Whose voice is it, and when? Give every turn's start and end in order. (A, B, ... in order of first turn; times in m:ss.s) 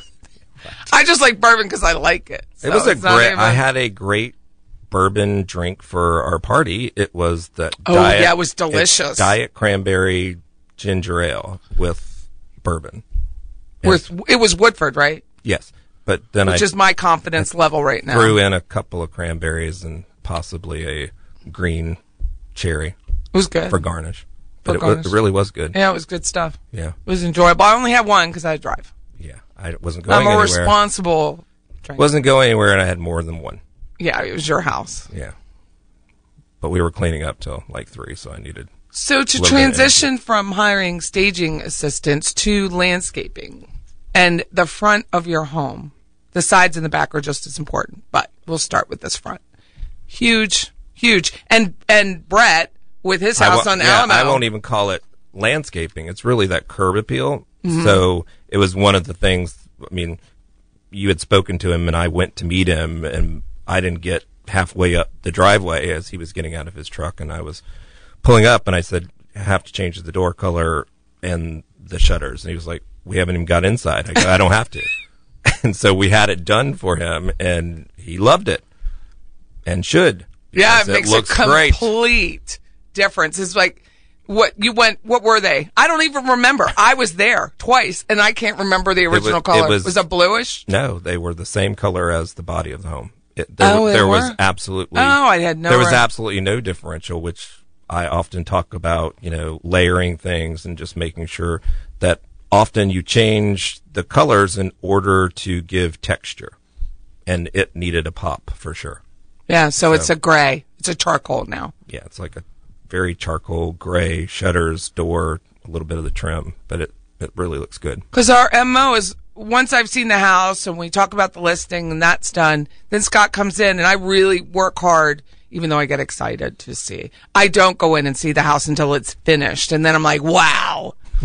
0:00.9-0:03.6 A
0:02.6-0:04.4 B
0:04.9-0:13.0 B
0:07.8-0:09.3 A
0:13.8-0:15.2 A
0:15.4-0:16.7 B
0:16.5-0:18.4 A
0:18.1-0:22.0 B
0:22.6-0:23.0 B
0:23.3-0:23.8 A
0:23.7-0:25.8 B
0:24.6-0:25.2 A
0:25.7-0:28.9 A
0:29.2-0:30.8 B
0:30.1-0:32.0 A
0:32.0-0:33.6 B
0:34.0-0:35.1 A
0:36.6-0:38.7 B
0:38.9-0:49.4 A
0:39.4-0:40.0 B
0:50.1-0:54.4 A
0:53.4-1:00.2 B
0:57.6-0:58.0 A
1:00.9-1:07.6 B
1:08.2-1:14.9 B
1:15.4-1:18.6 B
1:19.6-1:21.9 B
1:20.5-1:30.6 A
1:29.1-1:30.0 B
1:30.7-1:46.6 B
1:33.6-1:34.4 A
1:34.9-1:36.0 A
1:47.3-1:49.0 B
1:49.5-1:51.7 A
1:51.9-1:58.1 B
1:58.1-2:11.0 A